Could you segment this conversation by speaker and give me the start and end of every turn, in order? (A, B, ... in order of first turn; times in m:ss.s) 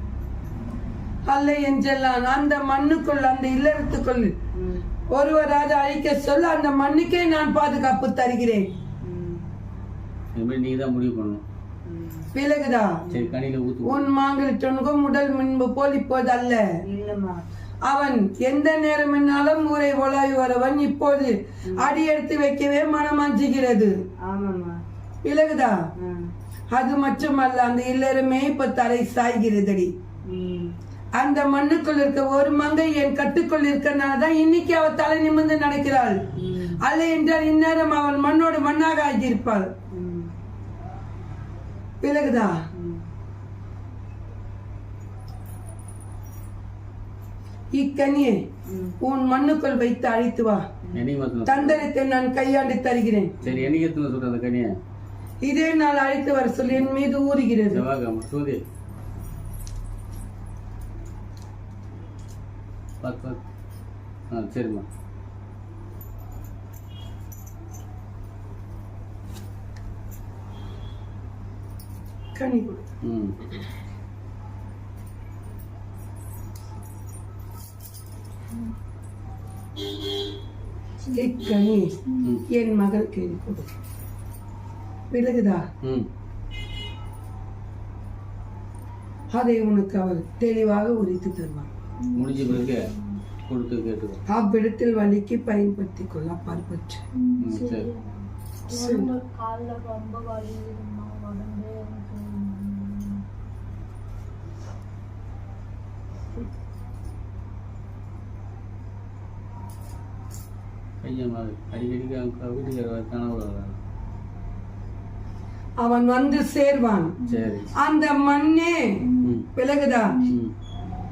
0:01.3-0:04.3 A
0:04.6-0:04.8 B
0:05.1-0:08.7 A
0:09.0-0:09.5 B
0:10.4-0:11.4 C
0:11.9-0:12.3 B
0:12.4-0:13.0 A
0:13.1-0:13.3 B
0:13.1-0:14.1 C
0:13.8-0:16.6 A
0:16.9-0:17.4 B
0:17.9-0:24.0 A
0:21.7-0:22.0 B
0:24.3-0:24.8 B
0:25.2-0:25.8 A
0:26.0-0:26.3 B
0:26.7-0:29.9 A
0:30.3-0:30.7 B
0:31.2-0:36.2 A
0:36.4-0:36.8 B
0:36.8-0:39.7 A
0:39.9-0:40.3 B
0:42.0-0:42.6 A
0:42.8-0:43.0 B
0:47.8-0:48.4 A
0:48.7-0:49.0 B
0:49.0-0:50.7 A
0:50.9-0:51.9 C
0:51.5-0:53.3 A
0:53.4-0:54.7 C
0:55.4-0:57.8 A
0:57.7-0:58.6 C
1:03.0-1:03.4 C
1:04.3-1:04.8 C
1:12.4-1:12.8 A
1:13.0-1:13.4 C
1:21.0-1:22.4 D
1:21.2-1:21.9 A
1:22.5-1:23.7 A
1:25.1-1:25.7 A
1:25.8-1:26.1 C
1:29.3-1:31.7 A
1:32.0-1:33.2 D
1:32.2-1:32.9 C
1:33.5-1:34.2 C
1:34.3-1:37.0 A
1:37.2-1:43.2 D
1:37.4-1:37.9 C
1:38.7-1:39.1 A
1:51.0-1:53.8 C
1:55.8-1:57.1 A
1:57.2-1:57.6 D
1:57.3-1:57.7 C
1:57.8-1:59.0 A
1:59.1-1:59.4 D
1:59.2-1:59.5 C
1:59.6-2:00.2 A
2:00.1-2:00.4 D
2:00.3-2:00.5 C